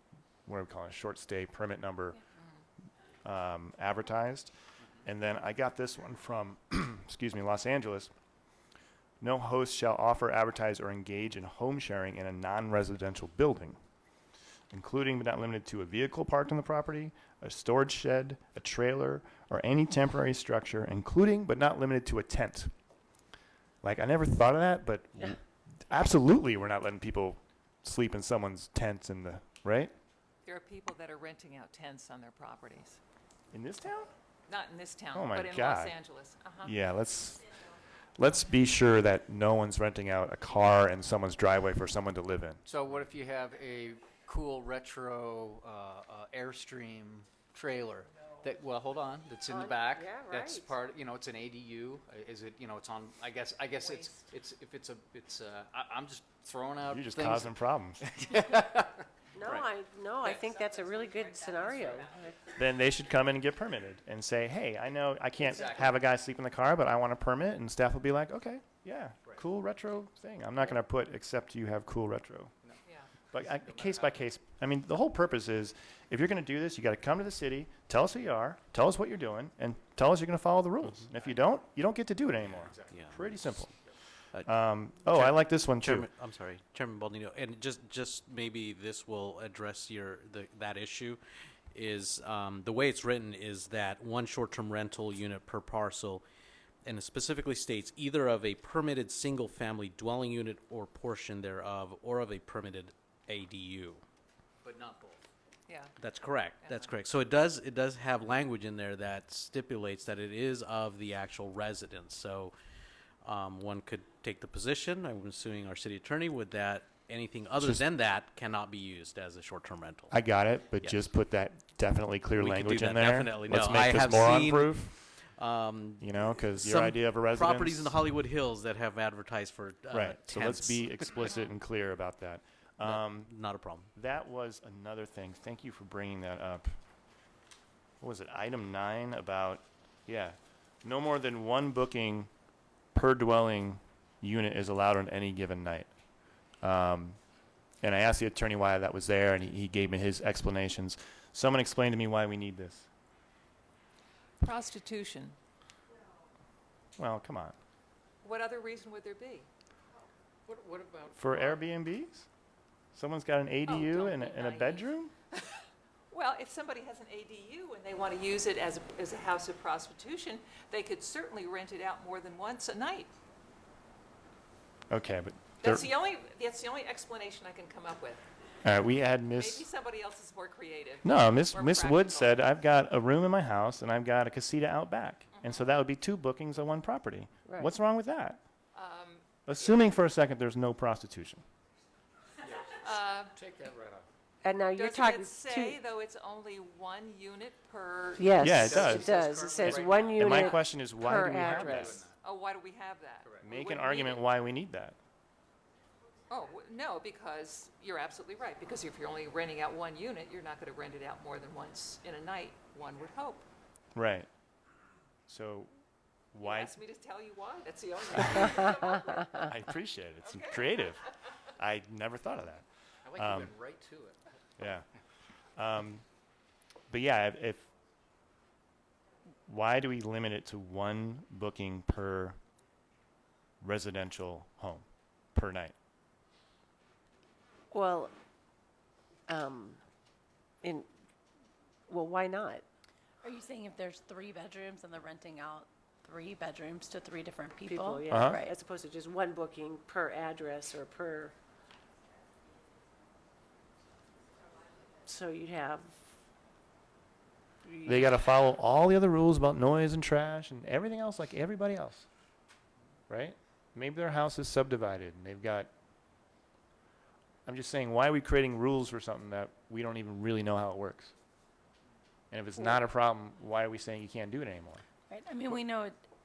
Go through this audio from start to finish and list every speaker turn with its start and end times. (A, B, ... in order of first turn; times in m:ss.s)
0:00.4-0:02.2 A
0:03.2-0:08.1 A
0:09.2-0:13.8 A
0:14.7-0:22.7 A
0:23.8-0:29.9 A
0:30.4-0:33.0 B
0:33.5-0:34.1 A
0:34.5-0:36.7 B
0:35.1-0:35.9 A
0:36.6-0:37.4 A
0:38.2-0:42.6 A
0:42.6-0:59.6 C
0:49.5-0:50.7 D
0:53.8-0:54.2 B
0:56.8-0:58.0 A
0:59.3-1:02.4 D
1:00.2-1:02.4 B
1:02.5-1:12.5 A
1:05.4-1:06.0 C
1:12.8-1:13.1 B
1:13.3-1:23.7 A
1:13.3-1:14.2 C
1:22.4-1:23.9 C
1:22.9-1:23.7 E
1:24.3-1:31.2 E
1:24.4-1:26.1 A
1:31.7-1:36.2 E
1:36.8-1:44.0 E
1:44.6-1:45.2 C
1:45.7-1:45.9 B
1:46.0-1:52.5 E
1:46.6-1:46.9 B
1:53.2-2:00.2 E
2:00.1-2:04.9 A
2:00.8-2:01.1 E
2:02.4-2:10.9 E
2:06.0-2:07.9 A
2:09.9-2:13.3 A
2:12.8-2:13.9 E
2:13.9-2:16.7 A
2:18.0-2:22.3 A
2:22.9-2:25.9 A
2:26.6-2:27.2 A
2:27.8-2:32.9 A
2:34.4-2:35.4 B
2:37.0-2:37.5 A
2:38.2-2:39.5 B
2:40.5-2:41.6 C
2:41.2-2:42.3 A
2:42.9-2:45.1 A
2:43.6-2:45.4 B
2:46.1-2:53.1 B
2:54.9-2:55.9 A
2:55.6-2:58.2 B
2:58.6-2:59.6 A
2:59.4-3:02.4 B
3:01.0-3:08.4 A
3:05.4-3:05.6 B
3:08.7-3:09.2 B
3:09.4-3:11.4 A
3:12.4-3:14.1 C
3:12.8-3:13.4 B
3:14.4-3:15.8 D
3:14.7-3:18.7 B
3:18.2-3:22.0 D
3:18.4-3:22.0 A
3:18.5-3:20.5 C
3:21.3-3:22.2 C
3:22.2-3:24.2 B
3:23.4-3:25.0 A
3:26.3-3:33.5 B
3:33.9-3:34.3 A
3:35.3-3:35.7 A
3:36.3-3:36.7 A
3:36.4-3:39.5 B
3:39.3-3:41.0 A
3:40.2-3:40.9 B
3:41.6-3:43.5 A
3:43.0-3:44.3 C
3:44.6-3:44.8 A
3:45.6-3:46.0 A
3:46.9-3:47.7 A
3:49.5-3:52.4 A
3:53.6-3:55.7 A
3:57.7-3:58.1 D
3:59.3-3:59.8 D
4:01.9-4:02.6 D
4:03.2-4:08.5 F
4:07.6-4:11.3 D
4:08.1-4:08.4 A
4:15.0-4:15.9 D
4:17.8-4:22.1 A
4:23.1-4:25.7 A
4:27.4-4:31.1 A
4:32.3-4:34.8 A
4:35.1-4:35.9 F